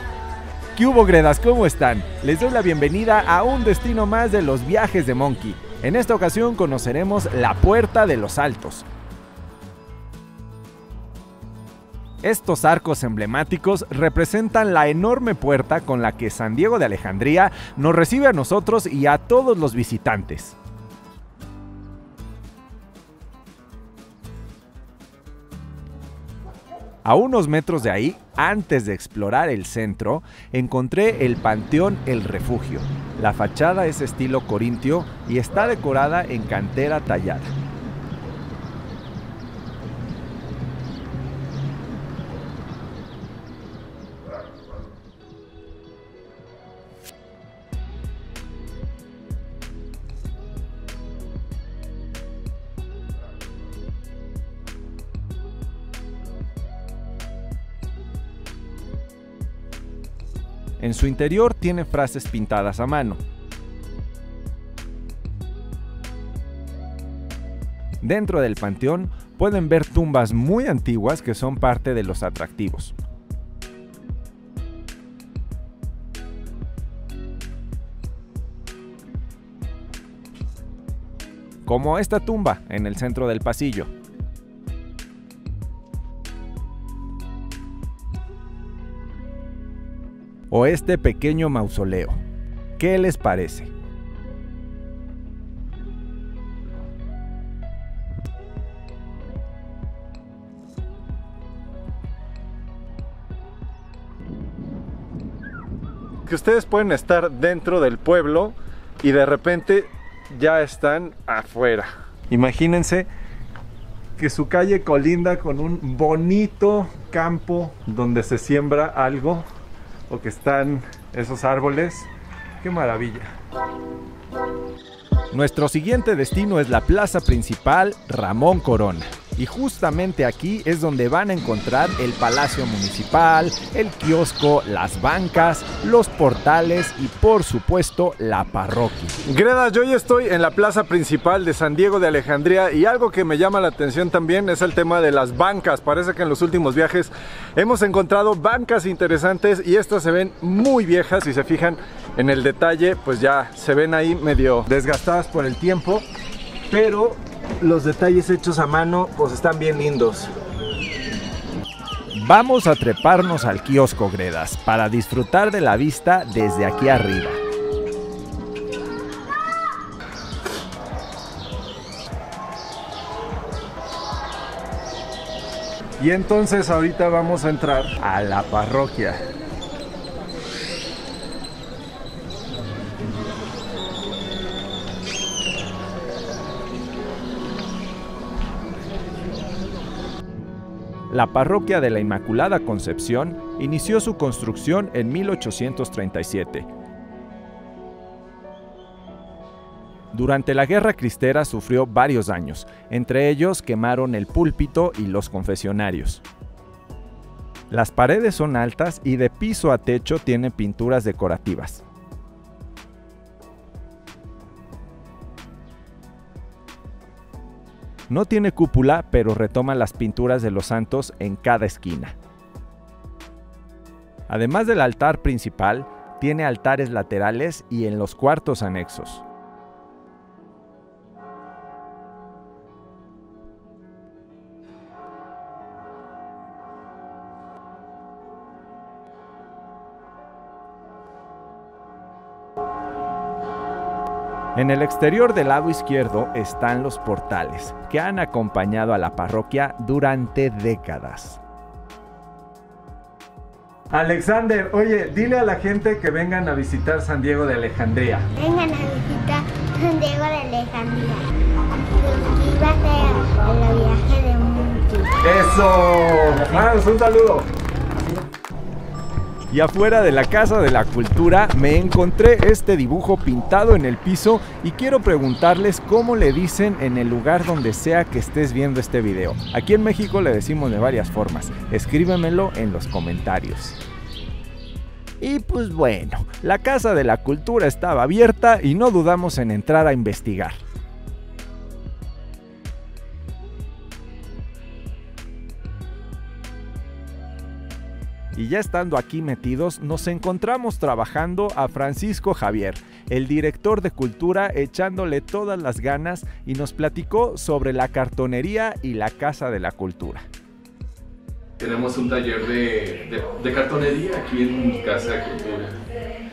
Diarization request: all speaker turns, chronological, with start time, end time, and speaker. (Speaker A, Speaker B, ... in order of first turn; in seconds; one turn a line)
Speaker A: 0.8-8.9
Speaker A: 12.2-20.6
Speaker A: 27.1-37.5
Speaker A: 60.8-63.2
Speaker A: 68.0-73.0
Speaker A: 81.7-83.9
Speaker A: 90.5-92.2
Speaker A: 92.8-93.7
Speaker B: 106.3-113.1
Speaker B: 114.2-119.5
Speaker B: 120.1-122.1
Speaker B: 122.6-123.3
Speaker A: 125.3-139.2
Speaker B: 139.3-156.1
Speaker B: 156.7-160.3
Speaker A: 162.2-167.4
Speaker B: 176.0-178.0
Speaker A: 178.0-179.2
Speaker A: 191.1-196.7
Speaker A: 200.1-206.2
Speaker A: 207.7-211.8
Speaker A: 218.1-222.2
Speaker A: 224.3-229.2
Speaker A: 244.6-251.4
Speaker B: 253.9-258.3
Speaker C: 258.4-261.3
Speaker C: 261.9-265.1
Speaker B: 265.2-267.5
Speaker A: 269.5-283.8
Speaker A: 285.2-290.6
Speaker A: 298.4-310.2
Speaker D: 311.6-315.9